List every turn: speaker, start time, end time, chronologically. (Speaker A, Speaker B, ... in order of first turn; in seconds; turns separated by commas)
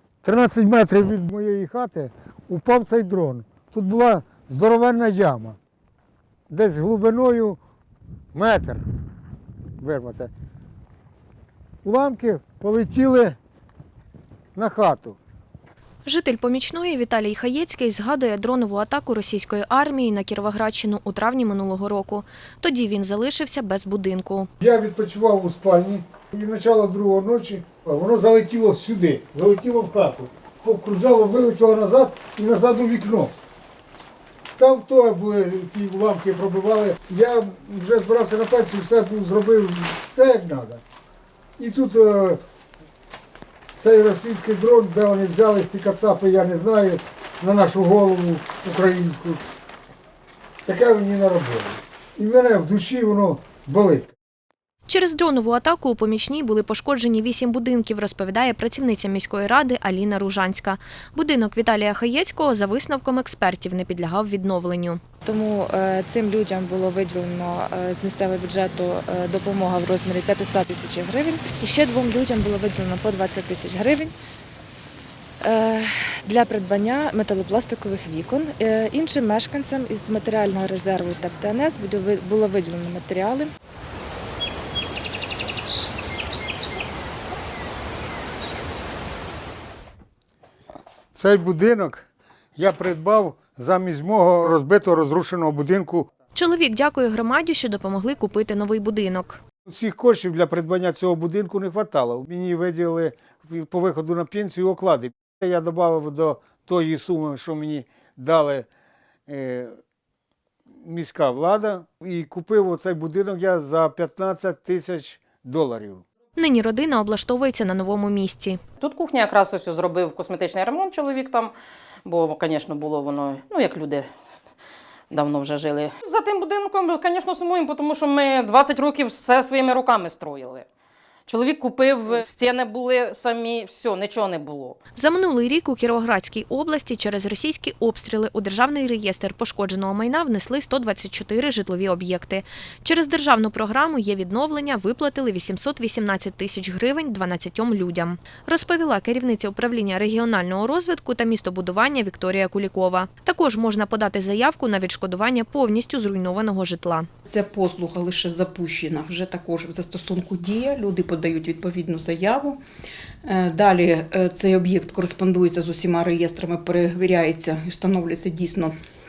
Speaker A: 0.2-5.6, Speaker A: 6.5-7.6, Speaker A: 8.3-8.8, Speaker A: 9.8-10.3, Speaker A: 11.8-13.4, Speaker A: 14.5-15.2, Speaker B: 16.1-24.5, Speaker A: 24.6-33.3, Speaker A: 34.5-40.8, Speaker A: 41.6-42.4, Speaker A: 43.8-49.4, Speaker A: 50.6-54.1, Speaker B: 54.9-65.0, Speaker C: 65.2-74.1, Speaker C: 75.4-83.5, Speaker A: 91.1-96.1, Speaker B: 96.3-99.4, Speaker A: 99.7-108.7, Speaker A: 109.3-109.8, Speaker A: 110.8-116.0, Speaker B: 116.3-118.6, Speaker D: 118.8-121.5, Speaker D: 122.1-124.0, Speaker D: 125.1-130.6, Speaker D: 131.3-134.8, Speaker B: 134.9-157.1, Speaker E: 157.3-162.3, Speaker E: 163.6-168.5